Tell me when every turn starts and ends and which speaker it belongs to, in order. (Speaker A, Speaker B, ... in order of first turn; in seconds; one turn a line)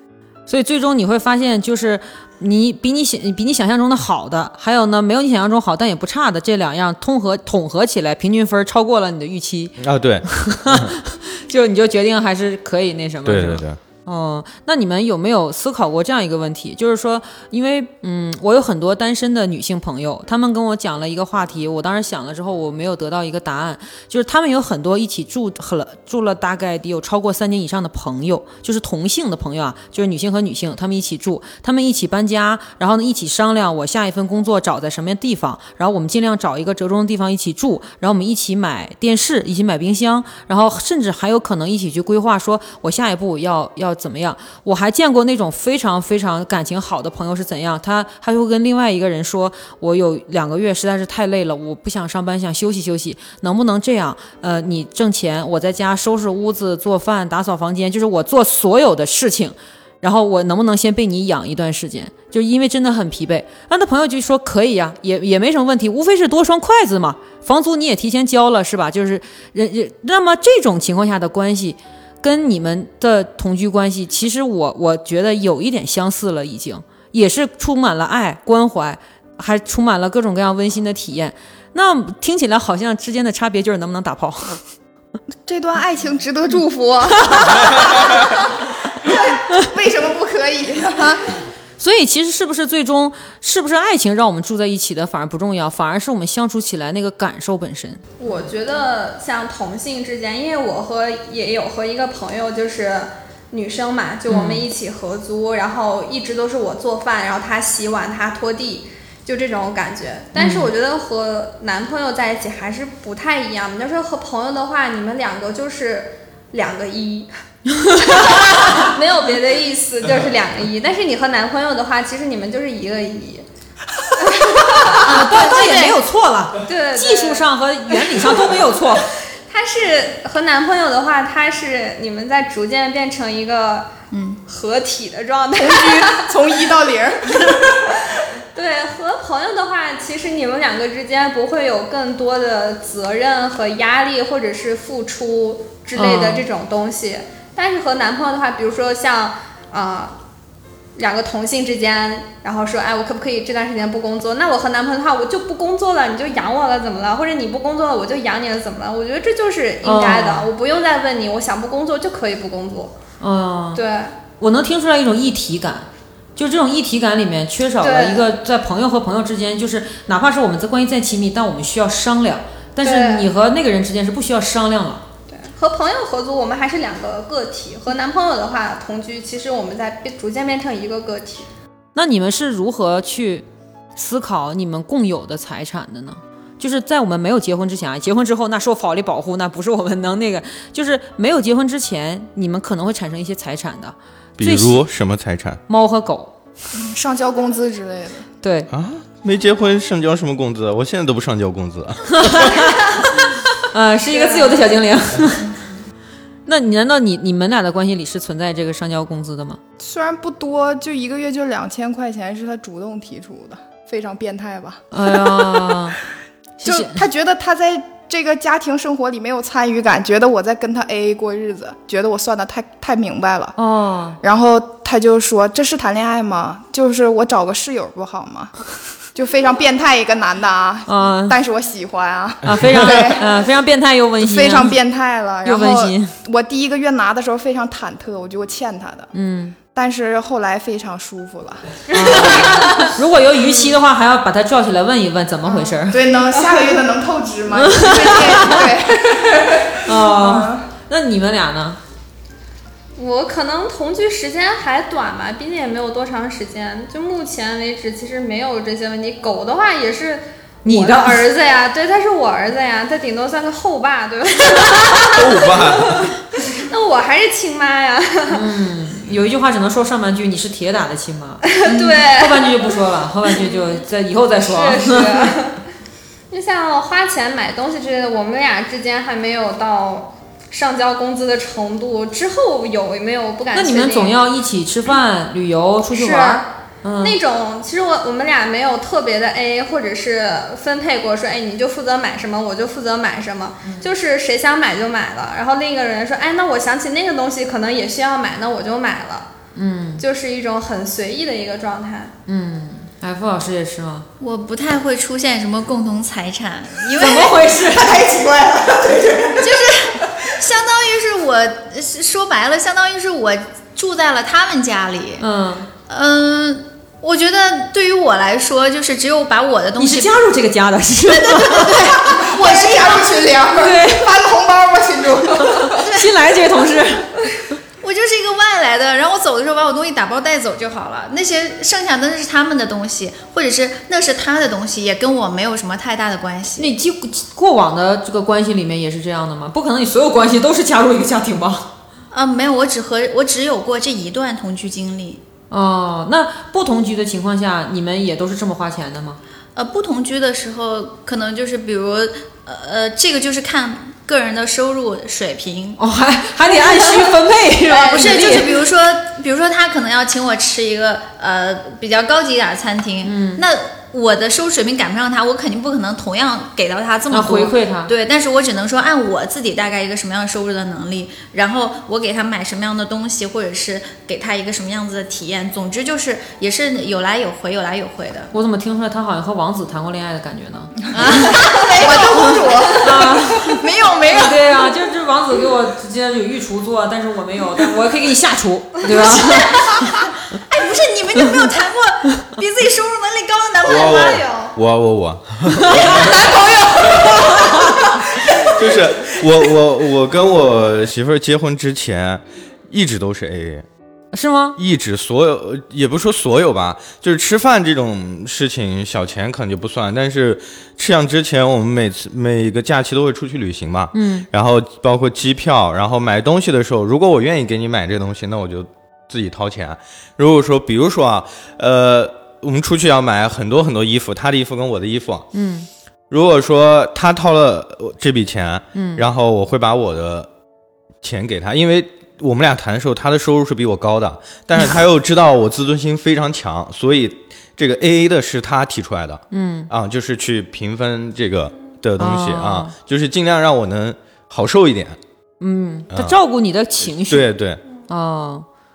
Speaker A: 0.5-9.8
Speaker B: 9.8-10.9
Speaker A: 10.3-84.6
Speaker B: 13.2-13.8
Speaker C: 85.5-91.3
Speaker A: 87.3-87.6
Speaker A: 91.8-98.0
Speaker D: 98.2-117.3
Speaker A: 104.3-104.7
Speaker A: 110.3-110.7
Speaker A: 117.7-118.9
Speaker D: 118.0-123.5
Speaker D: 124.2-126.0
Speaker A: 125.0-129.1
Speaker D: 126.6-127.5
Speaker D: 128.1-128.5
Speaker D: 129.5-133.9
Speaker E: 134.1-134.4
Speaker D: 134.5-136.3
Speaker C: 135.6-138.0
Speaker D: 138.5-150.2
Speaker A: 145.9-146.4
Speaker D: 151.0-162.9
Speaker A: 159.8-160.5
Speaker A: 163.2-163.8
Speaker D: 163.7-164.2
Speaker A: 164.4-175.0
Speaker D: 167.8-168.3
Speaker D: 172.8-173.3
Speaker D: 175.3-181.5
Speaker A: 181.9-194.8
Speaker B: 194.4-195.6
Speaker A: 195.7-196.3
Speaker C: 196.7-198.3
Speaker A: 198.4-198.7
Speaker B: 198.7-202.8
Speaker A: 202.1-202.9
Speaker A: 203.6-205.6
Speaker D: 204.1-204.7
Speaker A: 206.5-209.6
Speaker C: 209.8-215.9
Speaker A: 214.9-216.0
Speaker A: 216.6-217.1
Speaker C: 216.6-223.6
Speaker A: 223.6-224.2
Speaker C: 224.2-228.6
Speaker C: 229.1-233.4
Speaker A: 230.9-231.4
Speaker A: 232.4-234.8
Speaker C: 234.2-239.1
Speaker A: 235.4-236.1
Speaker A: 239.1-239.6
Speaker C: 239.7-242.5
Speaker A: 241.9-246.0
Speaker D: 242.1-242.9
Speaker D: 243.4-243.8
Speaker C: 245.7-250.7
Speaker D: 246.4-246.7
Speaker A: 247.5-248.7
Speaker A: 249.8-251.8
Speaker D: 253.0-268.5
Speaker A: 260.6-261.3
Speaker B: 265.1-266.2
Speaker A: 268.3-275.4
Speaker D: 271.5-272.7
Speaker D: 273.3-273.8
Speaker D: 274.4-275.6
Speaker D: 276.3-284.2
Speaker A: 283.5-287.2
Speaker D: 285.9-299.3
Speaker A: 293.6-293.9
Speaker A: 299.6-300.1
Speaker D: 300.0-302.1
Speaker A: 302.3-304.1
Speaker E: 304.2-307.6
Speaker A: 306.9-307.9
Speaker C: 307.7-310.3
Speaker E: 309.4-315.3
Speaker A: 315.2-315.7
Speaker E: 315.9-320.2
Speaker A: 319.8-322.2
Speaker E: 321.2-323.3
Speaker C: 321.8-325.8
Speaker A: 323.5-324.1
Speaker A: 325.4-327.3
Speaker E: 325.8-326.1
Speaker E: 327.8-336.7
Speaker A: 336.6-341.7
Speaker E: 342.1-345.2
Speaker A: 345.5-349.2
Speaker E: 349.6-355.8
Speaker A: 355.8-358.6
Speaker E: 357.7-378.3
Speaker D: 358.0-358.2
Speaker A: 363.0-363.4
Speaker A: 367.1-367.9
Speaker A: 378.3-381.3
Speaker E: 380.9-384.4
Speaker C: 381.2-383.1
Speaker A: 382.8-390.1
Speaker E: 388.9-394.0
Speaker D: 393.6-394.6
Speaker B: 393.7-397.2
Speaker A: 395.7-395.9
Speaker D: 395.8-397.0
Speaker E: 396.1-397.4
Speaker A: 397.4-397.8
Speaker B: 398.4-403.7
Speaker A: 404.1-404.6
Speaker B: 404.6-425.3
Speaker A: 413.9-414.3
Speaker A: 425.3-425.7
Speaker B: 426.1-430.3
Speaker A: 428.7-429.1
Speaker B: 431.0-445.0
Speaker A: 439.3-439.7
Speaker A: 442.0-442.7
Speaker A: 445.4-448.5
Speaker B: 445.9-446.2
Speaker B: 446.9-447.6